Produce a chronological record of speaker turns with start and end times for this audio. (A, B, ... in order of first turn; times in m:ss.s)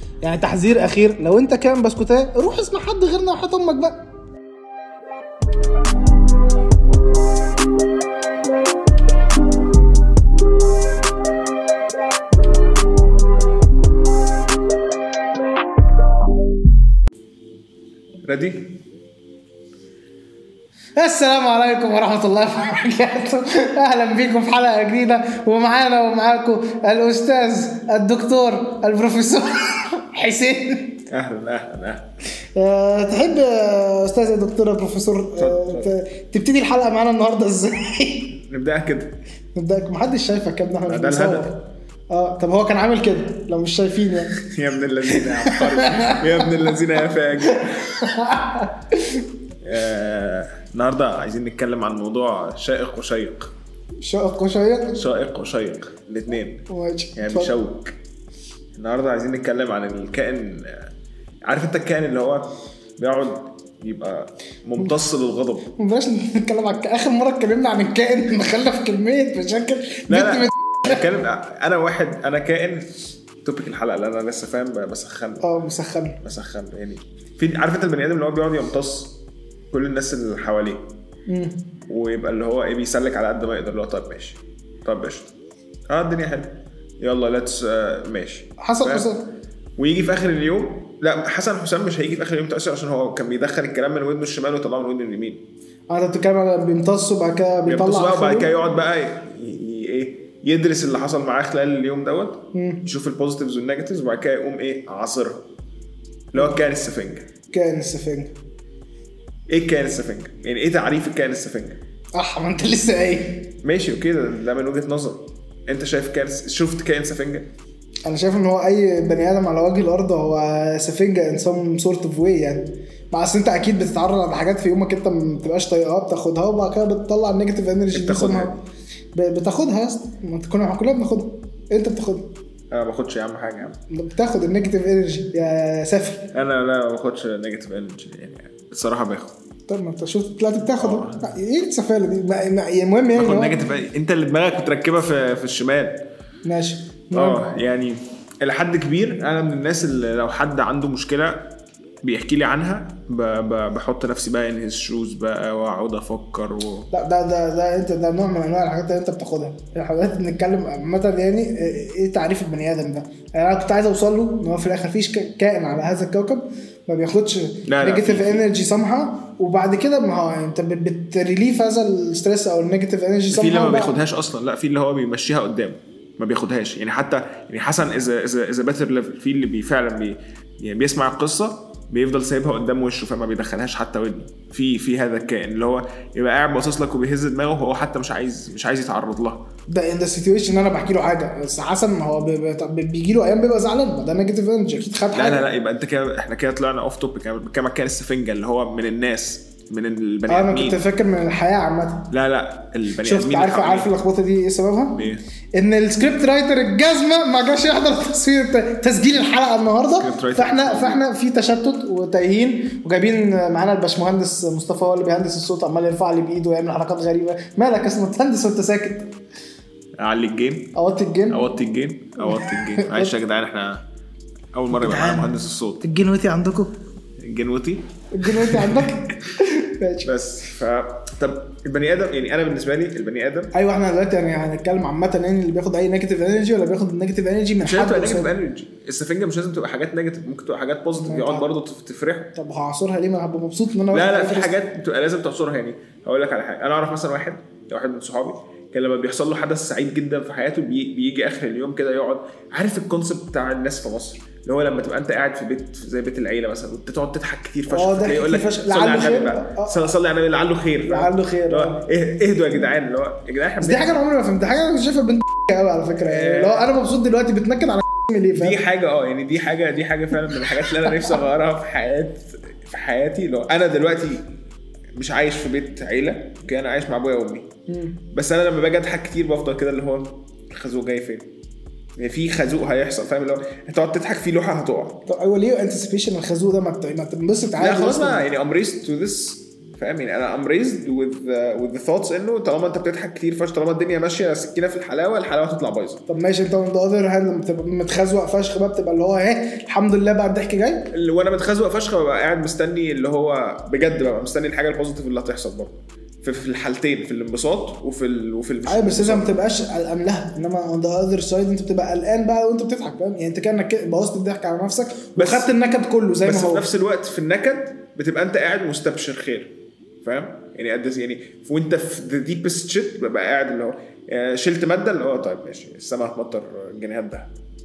0:00.2-0:04.0 A
0:18.2-0:18.8 B
0:21.0-0:31.0 A
0:31.1-0:32.1 B
0:32.5-0:38.4 A
0:35.4-0:35.9 B
0:38.4-0:39.2 B
0:39.5-0:44.4 A
0:40.9-0:41.5 B
0:44.4-0:48.0 B
0:45.1-0:46.7 A
0:47.5-0:49.2 A
0:49.6-0:53.5 B
0:54.0-0:55.0 A
0:54.9-0:58.0 B
0:56.7-0:57.5 A
0:58.7-1:00.9 B
1:01.4-1:05.7 B
1:05.8-1:11.0 A
1:10.1-1:12.9 B
1:13.4-1:15.4 B
1:15.4-1:16.2 A
1:16.2-1:19.2 B
1:19.7-1:20.9 B
1:21.3-1:21.6 A
1:21.9-1:25.3 B
1:25.9-1:29.1 B
1:28.6-1:29.3 A
1:29.8-1:35.4 B
1:35.9-1:38.5 A
1:37.6-1:45.4 B
1:42.5-1:42.8 A
1:46.3-1:47.3 B
1:47.5-1:48.3 A
1:49.5-1:51.8 B
1:52.1-1:53.5 A
1:53.6-1:57.5 B
1:58.0-2:08.6 A
2:07.9-2:08.6 B
2:09.1-2:12.3 A
2:12.7-2:13.8 B
2:13.9-2:16.3 A
2:16.3-2:19.3 B
2:19.7-2:23.6 A
2:20.8-2:21.2 B
2:23.1-2:26.0 B
2:26.4-2:27.4 A
2:27.1-2:36.9 B
2:36.9-2:53.9 A
2:47.6-2:48.4 B
2:53.3-3:09.4 B
3:09.7-3:15.4 A
3:15.1-3:20.8 B
3:20.3-3:22.1 A
3:22.1-3:23.9 B
3:23.0-3:39.1 A
3:24.9-3:25.2 B
3:30.0-3:31.0 B
3:40.0-3:40.8 B
3:40.7-3:41.4 A
3:41.3-3:43.8 B
3:42.2-3:43.1 A
3:44.5-3:45.8 B
3:44.7-3:46.8 A
3:47.2-3:49.0 B
3:48.1-3:50.1 A
3:50.0-3:53.5 B
3:53.5-3:58.3 A
3:57.6-4:02.3 B
4:01.0-4:01.5 A
4:02.3-4:04.5 A
4:03.9-4:24.0 B
4:17.7-4:19.8 A
4:20.8-4:21.8 A
4:23.6-4:28.6 A
4:26.0-4:26.7 B
4:28.3-4:34.3 B
4:34.9-4:37.5 B
4:37.7-4:38.0 A
4:38.1-4:41.3 B
4:42.0-4:45.0 B
4:45.0-4:48.2 A
4:47.6-4:56.0 B
4:56.1-5:00.9 A
5:00.9-5:09.3 B
5:08.6-5:16.7 A
5:15.2-5:15.5 B
5:16.2-5:27.3 B